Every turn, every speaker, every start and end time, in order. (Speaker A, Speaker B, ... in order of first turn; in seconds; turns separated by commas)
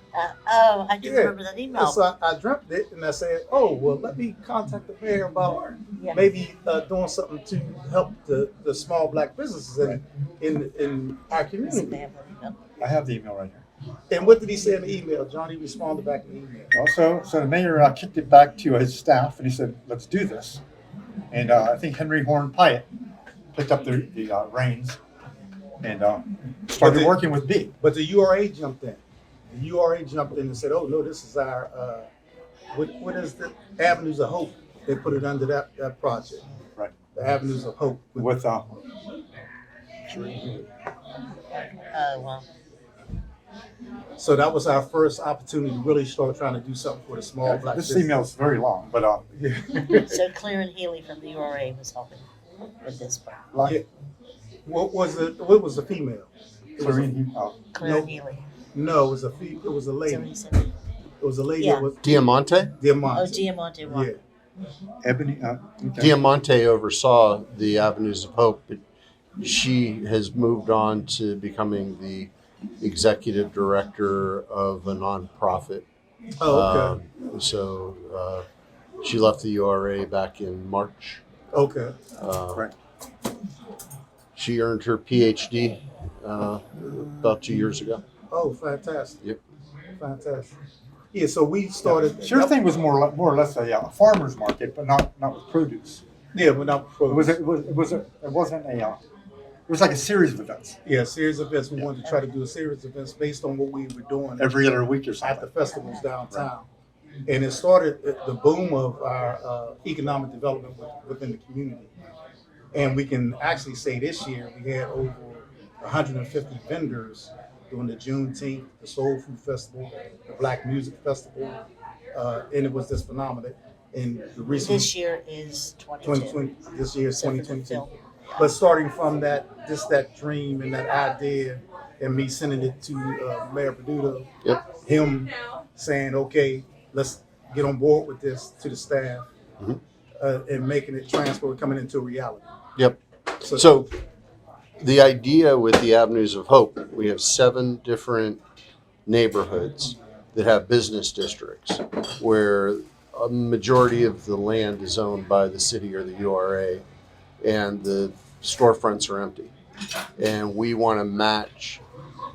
Speaker A: 0.1-2.0, Speaker B: 1.0-12.0, Speaker A: 11.5-12.6, Speaker C: 12.8-13.6, Speaker B: 14.1-16.7, Speaker C: 16.7-20.6, Speaker C: 21.3-22.9, Speaker C: 23.5-25.0, Speaker C: 25.8-27.7, Speaker B: 26.8-27.1, Speaker B: 27.8-32.1, Speaker B: 32.7-36.4, Speaker B: 37.1-38.3, Speaker C: 38.1-38.6, Speaker C: 40.1-40.6, Speaker A: 41.9-42.5, Speaker B: 44.2-48.2, Speaker C: 47.4-49.3, Speaker B: 49.4-50.2, Speaker A: 50.0-52.3, Speaker A: 52.8-53.4, Speaker C: 52.9-53.8, Speaker B: 54.6-57.1, Speaker C: 56.8-57.6, Speaker A: 57.7-58.5, Speaker B: 57.8-58.1, Speaker B: 58.7-60.3, Speaker A: 60.0-60.7, Speaker B: 61.2-62.2, Speaker A: 61.6-61.9, Speaker D: 62.0-62.7, Speaker B: 62.8-64.2, Speaker A: 63.1-64.1, Speaker C: 65.0-66.1, Speaker D: 66.0-68.8, Speaker D: 69.4-75.8, Speaker B: 76.4-77.0, Speaker D: 76.5-78.4, Speaker D: 79.0-81.2, Speaker B: 81.5-82.0, Speaker D: 82.2-82.6, Speaker D: 84.3-88.0, Speaker B: 88.3-89.2, Speaker B: 90.0-90.5, Speaker B: 91.1-92.7, Speaker C: 91.8-96.0, Speaker B: 96.3-97.4, Speaker C: 97.1-99.0, Speaker C: 99.7-100.8, Speaker B: 100.8-104.5, Speaker C: 104.4-105.5, Speaker B: 105.2-106.7, Speaker A: 105.7-106.0, Speaker B: 107.3-111.9, Speaker B: 112.7-121.6, Speaker B: 122.1-124.9, Speaker A: 124.6-126.4, Speaker B: 126.0-127.8, Speaker A: 127.2-128.5, Speaker B: 128.4-134.3, Speaker B: 134.8-139.3, Speaker B: 140.2-142.4, Speaker D: 142.8-143.9, Speaker B: 143.4-143.8, Speaker D: 144.8-148.4, Speaker D: 149.1-156.8, Speaker D: 157.4-159.5, Speaker D: 160.2-161.8